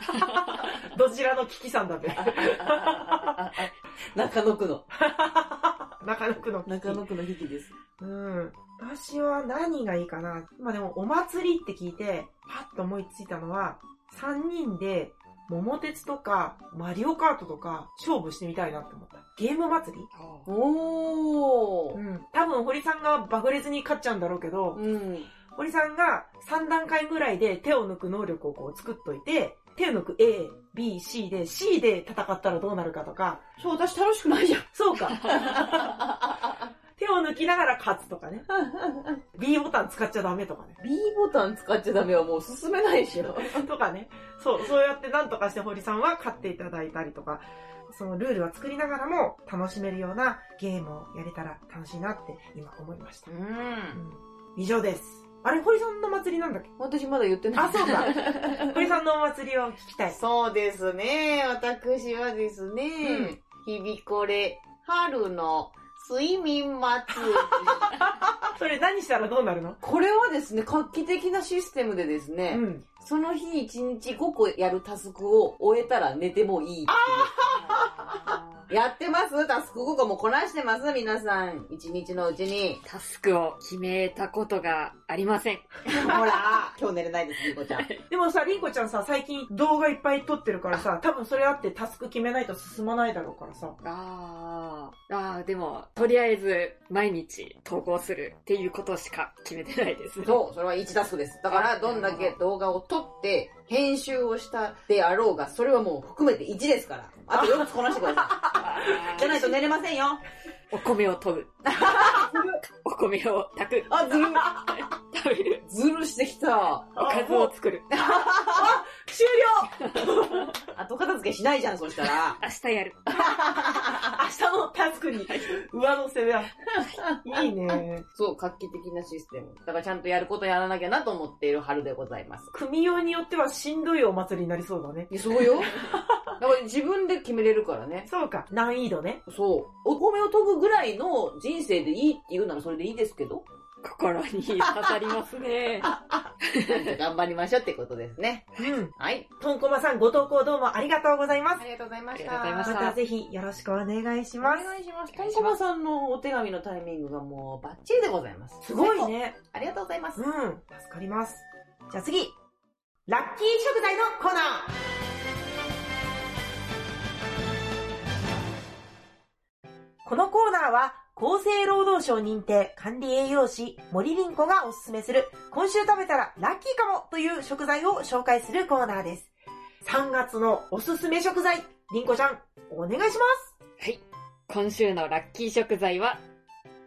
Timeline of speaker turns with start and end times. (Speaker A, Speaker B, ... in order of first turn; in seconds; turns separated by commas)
Speaker A: 0.1-3.4, Speaker B: 0.1-0.6, Speaker C: 2.0-4.9, Speaker A: 4.9-7.0, Speaker C: 6.6-7.8, Speaker A: 8.0-20.1, Speaker B: 20.1-20.5, Speaker C: 20.5-22.0, Speaker A: 21.9-24.8, Speaker C: 24.7-25.3, Speaker A: 25.5-33.4, Speaker C: 33.6-36.7, Speaker A: 34.7-36.1, Speaker A: 37.0-38.4, Speaker C: 38.5-39.2, Speaker A: 39.3-40.8, Speaker C: 40.8-43.6, Speaker A: 43.3-53.3, Speaker C: 53.3-54.0, Speaker A: 53.9-56.7, Speaker C: 56.8-58.9, Speaker A: 57.5-60.2, Speaker C: 60.1-68.0, Speaker A: 63.0-63.3, Speaker A: 67.5-69.8, Speaker C: 69.8-77.8, Speaker A: 72.5-72.8, Speaker A: 76.9-78.0, Speaker B: 77.5-78.7, Speaker C: 78.7-82.8, Speaker B: 82.8-85.8, Speaker C: 85.8-87.9, Speaker A: 86.0-86.7, Speaker B: 87.6-88.0, Speaker A: 88.1-93.8, Speaker B: 93.8-100.4, Speaker C: 100.2-110.2, Speaker B: 101.5-102.4, Speaker A: 107.3-109.6, Speaker B: 108.5-109.5, Speaker B: 110.7-115.6, Speaker C: 111.6-112.6, Speaker C: 113.9-114.7, Speaker C: 115.6-117.0, Speaker A: 117.0-117.5, Speaker B: 117.0-117.9, Speaker C: 117.9-118.8, Speaker A: 118.0-120.5, Speaker B: 119.8-120.5, Speaker C: 120.7-122.4, Speaker B: 122.4-123.2, Speaker C: 123.1-124.2, Speaker A: 124.0-126.6, Speaker B: 125.2-125.5, Speaker C: 126.7-132.5, Speaker A: 127.2-128.0, Speaker A: 132.5-136.3, Speaker C: 135.1-135.8, Speaker C: 136.4-138.1, Speaker A: 138.1-139.2, Speaker C: 139.2-143.4, Speaker B: 143.8-145.9, Speaker C: 144.6-145.0, Speaker C: 145.8-149.3, Speaker B: 146.4-146.9, Speaker A: 148.6-151.6, Speaker C: 151.6-152.8, Speaker B: 152.1-153.0, Speaker A: 152.6-154.7, Speaker C: 154.4-160.2, Speaker B: 155.1-155.6, Speaker A: 158.6-159.4, Speaker A: 160.2-162.3, Speaker A: 163.1-164.7, Speaker A: 170.0-179.3, Speaker A: 179.8-183.5, Speaker B: 183.8-186.2